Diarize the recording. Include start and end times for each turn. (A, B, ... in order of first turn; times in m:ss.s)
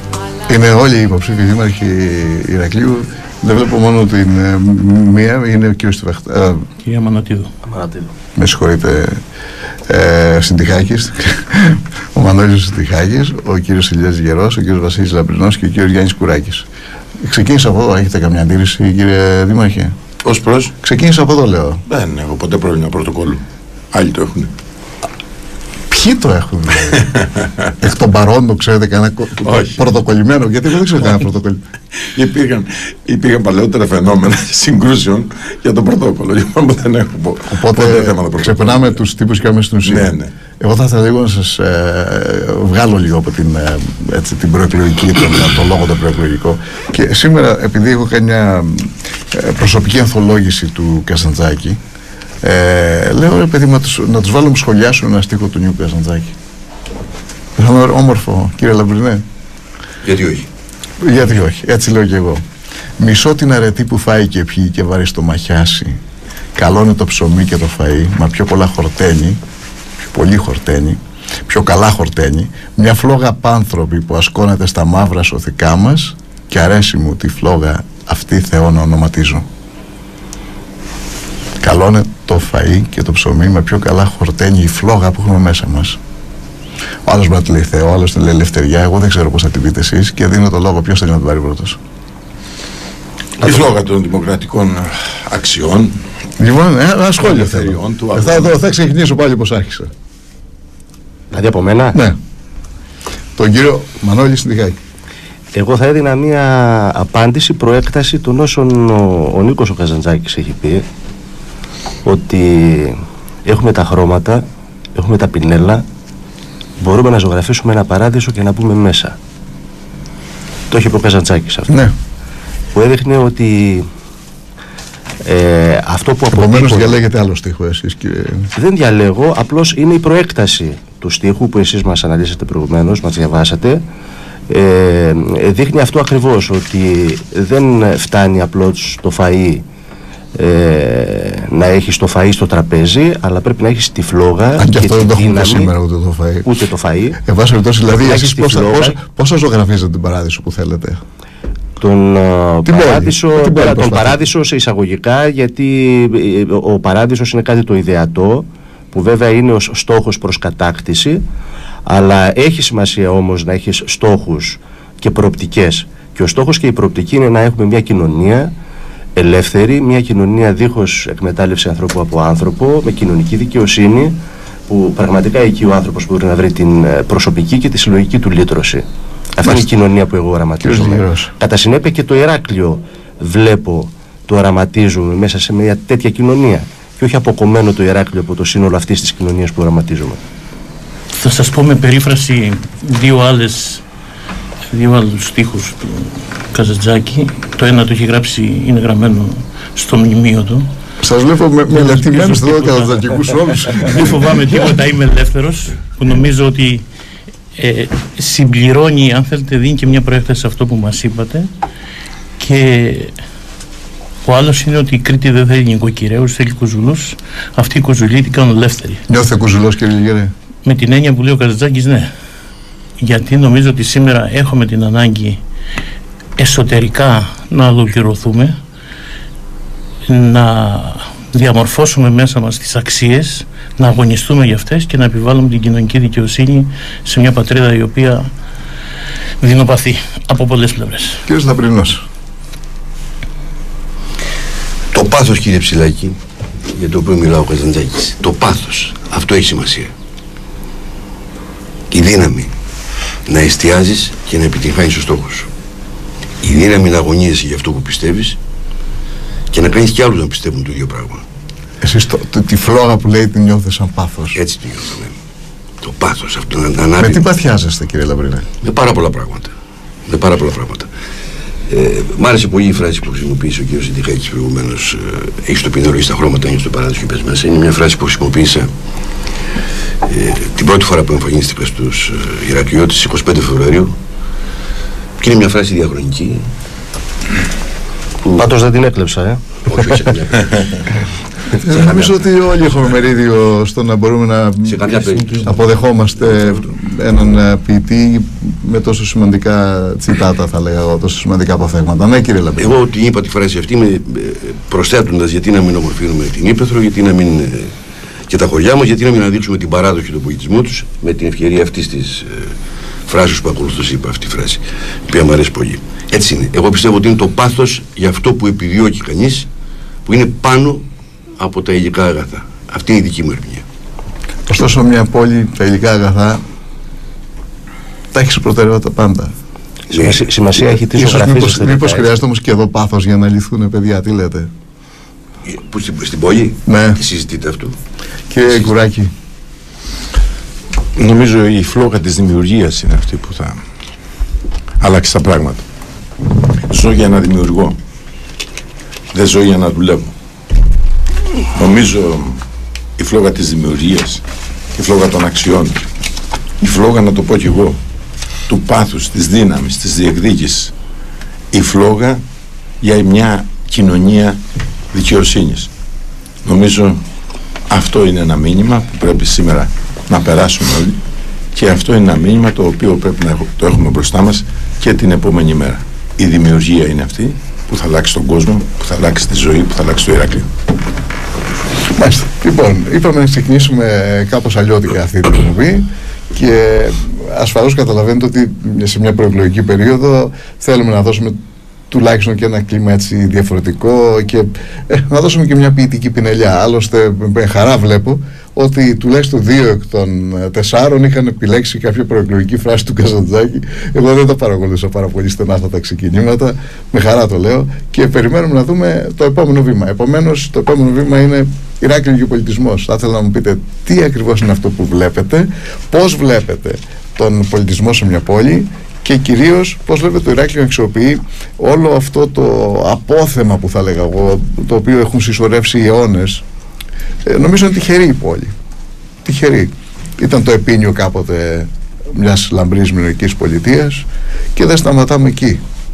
0:00.5-0:06.6 A
0:06.8-0:07.5 B
0:07.7-0:08.1 C
0:08.4-0:09.2 A
0:09.9-0:16.7 A
0:17.2-0:20.0 A
0:20.2-0:20.7 D
0:20.8-0:21.8 A
0:21.9-0:24.5 D
0:25.9-0:27.1 A
0:27.0-0:27.7 D
0:27.8-0:31.6 A
0:29.4-0:29.8 D
0:32.1-0:39.0 D
0:37.5-0:51.8 A
0:39.9-0:40.3 D
0:52.4-0:56.4 A
0:57.6-0:59.2 A
1:00.0-1:00.5 E
1:01.0-1:02.4 A
1:03.0-1:06.0 A
1:06.6-1:09.4 A
1:10.0-1:19.5 A
1:21.6-1:26.0 A
1:27.0-1:31.8 A
1:33.4-1:36.0 D
1:36.4-1:39.9 A
1:37.2-1:38.6 D
1:41.3-1:42.0 C
1:41.9-1:42.2 A
1:43.4-1:44.8 A
1:45.5-1:50.8 C
1:52.0-1:54.4 C
1:55.0-1:55.8 C
1:56.8-1:59.2 C
2:00.7-2:01.7 C
2:01.7-2:01.9 A
2:02.7-2:03.9 C
2:05.2-2:07.0 C
2:06.3-2:08.5 A
2:08.6-2:13.8 C
2:14.5-2:19.6 C
2:20.4-2:25.7 C
2:24.6-2:26.5 A
2:26.4-2:27.2 C
2:27.2-2:31.0 A
2:27.9-2:29.0 C
2:31.8-2:41.2 C
2:32.6-2:34.2 A
2:41.9-2:48.5 C
2:49.2-2:54.2 C
2:54.7-2:58.8 C
2:59.4-3:10.2 C
2:59.4-2:59.7 A
3:00.6-3:01.3 A
3:11.1-3:13.8 B
3:14.7-3:20.7 B
3:21.0-3:24.2 A
3:21.7-3:23.0 B
3:23.8-3:26.8 B
3:27.6-3:31.5 B
3:32.4-3:33.1 B
3:34.2-3:39.0 B
3:39.1-3:40.3 A
3:40.6-3:42.1 B
3:43.0-3:45.4 B
3:46.4-3:48.6 B
3:50.1-3:58.3 B
3:59.4-4:01.2 B
4:01.3-4:02.0 A
4:04.9-4:06.2 E
4:06.7-4:09.9 E
4:11.9-4:12.5 E
4:13.3-4:15.5 E
4:16.4-4:18.4 E
4:19.5-4:21.2 E
4:21.8-4:24.4 A
4:24.4-4:25.2 E
4:25.8-4:27.2 E
4:27.0-4:28.5 A
4:28.6-4:29.5 E
4:30.1-4:30.9 E
4:31.7-4:38.7 E
4:40.0-4:44.0 E
4:45.2-4:46.5 E
4:48.4-4:50.1 C
4:49.7-4:52.2 E
4:50.4-4:50.7 D
4:51.5-5:02.7 A
4:54.7-4:56.6 E
5:02.6-5:07.7 E
5:08.3-5:12.5 E
5:13.1-5:19.5 E
5:20.1-5:20.8 E
5:21.4-5:23.6 E
5:24.5-5:26.4 A
5:28.1-5:29.3 A
5:29.9-5:32.1 C
5:30.1-5:34.5 A
5:35.4-5:37.8 E
5:36.7-5:37.0 A
5:38.3-5:39.1 A
5:41.0-5:43.6 D
5:44.8-5:45.6 D
5:46.7-5:47.8 D
5:49.1-5:50.1 D
5:51.6-5:52.4 D
5:53.0-5:54.2 D
5:54.8-5:55.9 D
5:56.6-5:57.8 D
5:58.5-6:00.7 D
6:01.5-6:02.2 D
6:02.8-6:04.4 D
6:04.9-6:05.7 D
6:06.4-6:07.0 D
6:07.7-6:11.0 D
6:11.5-6:20.5 D
6:22.0-6:31.4 A
6:31.9-7:06.4 A
7:07.2-7:08.5 A
7:09.2-7:15.6 A